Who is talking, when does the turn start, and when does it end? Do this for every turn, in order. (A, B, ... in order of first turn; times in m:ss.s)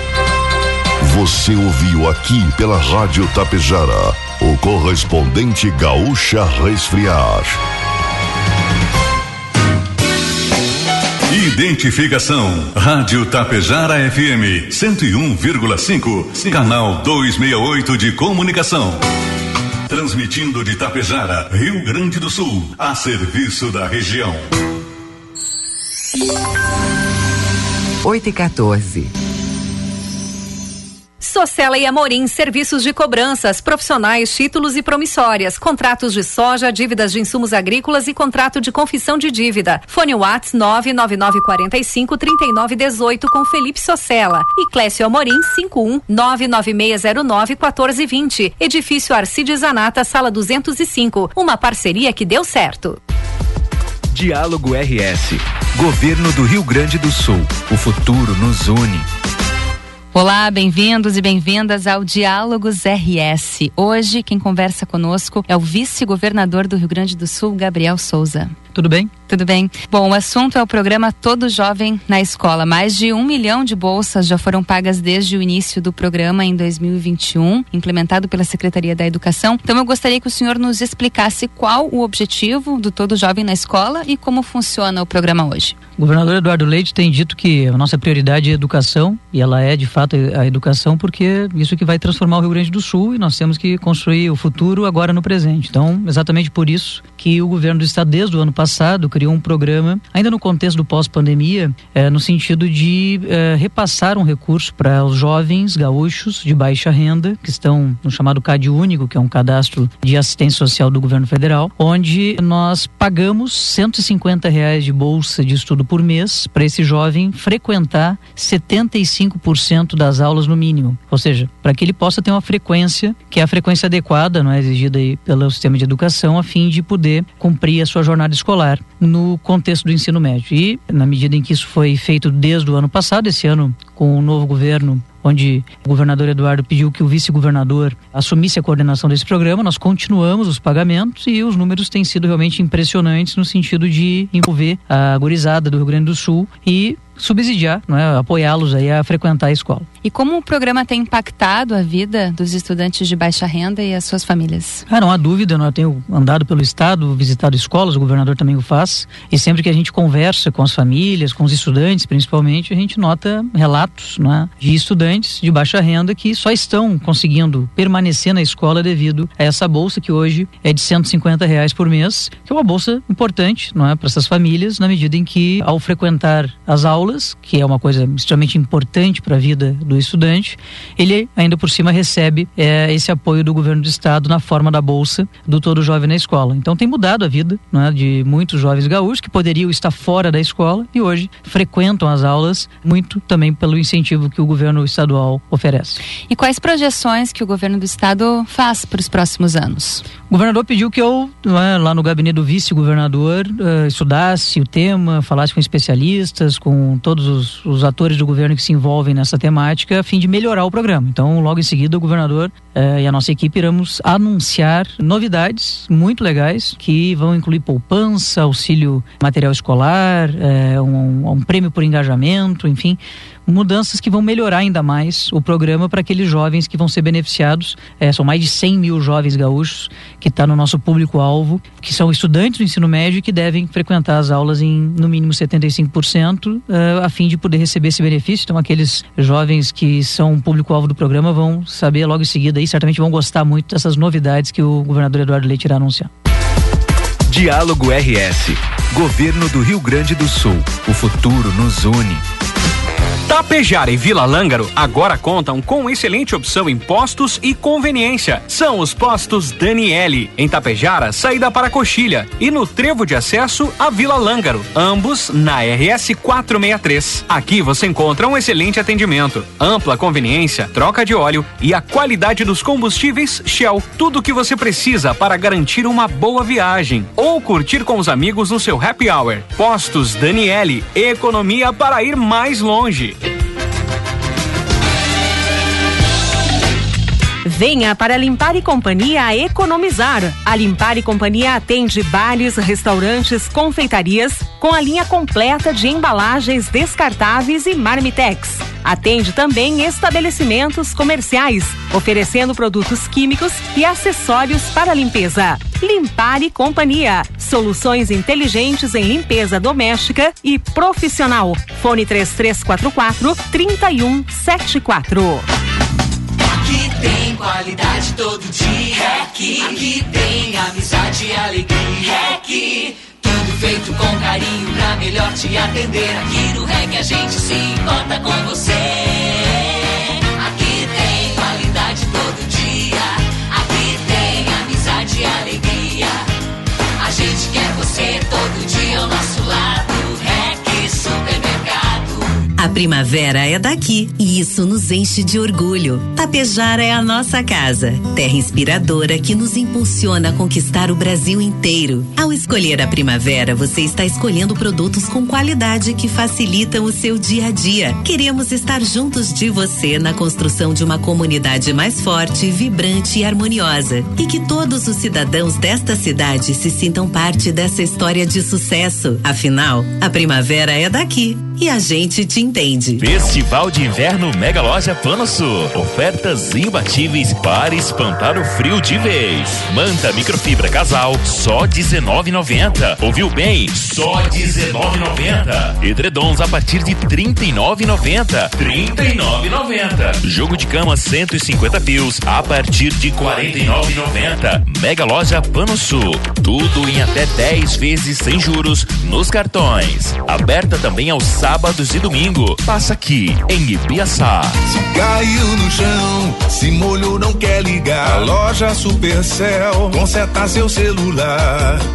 0:01.0-0:07.6 A
0:11.4-0:18.8 B
0:20.1-0:24.0 B
0:31.2-0:53.0 C
0:54.1-0:59.0 D
1:00.1-1:08.6 E
1:08.7-1:09.1 F
1:09.3-1:25.8 E
1:26.0-2:29.9 F
2:30.0-2:34.8 E
2:34.9-3:16.0 F
3:16.3-3:20.0 E
3:20.3-4:06.1 F
4:07.3-4:12.2 D
4:13.3-4:43.1 G
4:47.4-5:15.4 H
5:16.7-5:29.4 I
5:30.4-5:36.1 I
5:37.0-5:42.2 I
5:42.6-6:13.0 J
6:13.0-6:44.6 K
6:44.9-6:51.6 L